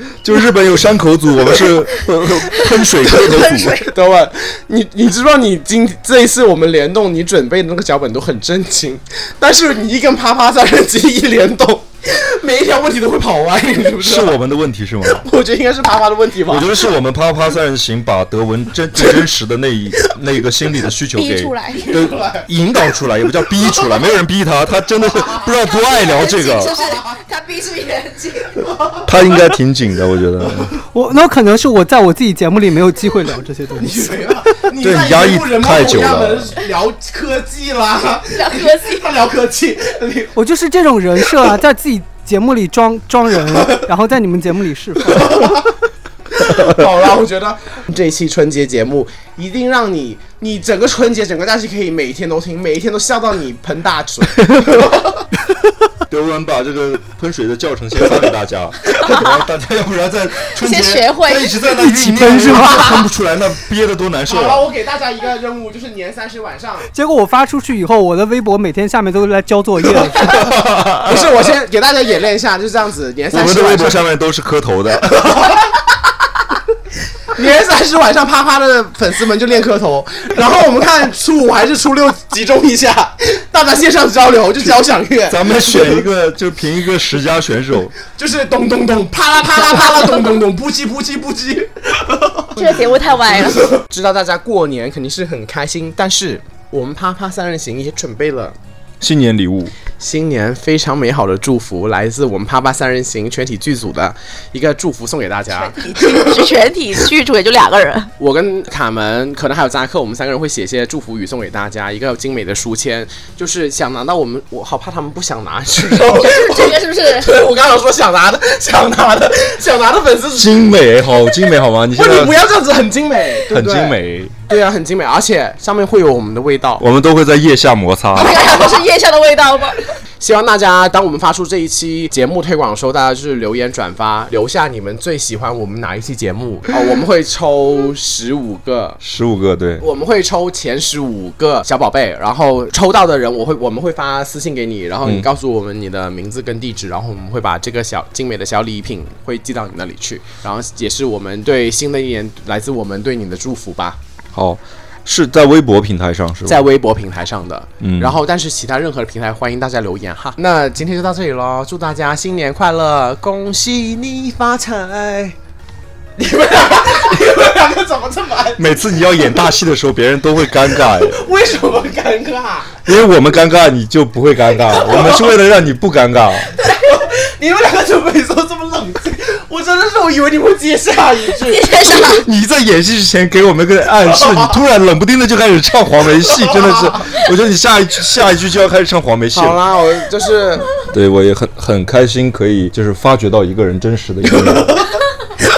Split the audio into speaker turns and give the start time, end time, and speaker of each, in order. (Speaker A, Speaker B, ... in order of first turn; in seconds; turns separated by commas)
Speaker A: 0.2-3.9, Speaker B: 3.1-3.9, Speaker C: 3.8-14.4, Speaker A: 14.0-15.3, Speaker C: 15.1-16.9, Speaker A: 16.5-26.7, Speaker C: 18.9-19.3, Speaker B: 21.1-22.0, Speaker C: 21.7-22.5, Speaker B: 25.5-28.7, Speaker C: 26.6-27.0, Speaker A: 29.1-30.7, Speaker D: 30.9-34.2, Speaker C: 33.8-40.3, Speaker A: 34.8-36.6, Speaker B: 38.3-39.1, Speaker D: 40.4-45.6, Speaker C: 45.1-45.7, Speaker C: 46.4-55.2, Speaker A: 56.1-64.7, Speaker B: 60.6-61.6, Speaker D: 61.8-63.1, Speaker C: 62.4-63.0, Speaker C: 64.3-66.9, Speaker D: 66.9-70.4, Speaker A: 70.2-71.3, Speaker C: 70.3-74.0, Speaker A: 73.3-75.5, Speaker C: 75.1-75.8, Speaker C: 77.3-85.9, Speaker A: 85.3-88.0, Speaker C: 88.1-92.9, Speaker B: 92.6-93.8, Speaker C: 93.6-98.6, Speaker A: 99.0-99.7, Speaker C: 100.0-106.5, Speaker B: 105.5-108.1, Speaker C: 108.2-120.7, Speaker B: 115.9-117.3, Speaker A: 120.3-122.4, Speaker C: 122.0-124.0, Speaker A: 123.5-124.3, Speaker C: 124.5-126.8, Speaker A: 126.8-128.4, Speaker B: 128.2-129.9, Speaker C: 128.4-128.8, Speaker C: 130.2-139.0, Speaker A: 139.0-139.8, Speaker C: 139.8-154.0, Speaker A: 154.3-156.7, Speaker C: 156.5-165.3, Speaker A: 157.8-158.2, Speaker C: 166.2-168.7, Speaker A: 168.6-171.3, Speaker C: 170.6-172.8, Speaker A: 172.8-176.5, Speaker C: 174.8-175.3, Speaker C: 176.6-181.7, Speaker B: 181.5-182.3, Speaker A: 182.0-189.6, Speaker C: 186.5-186.8, Speaker C: 189.3-190.7, Speaker A: 190.8-194.9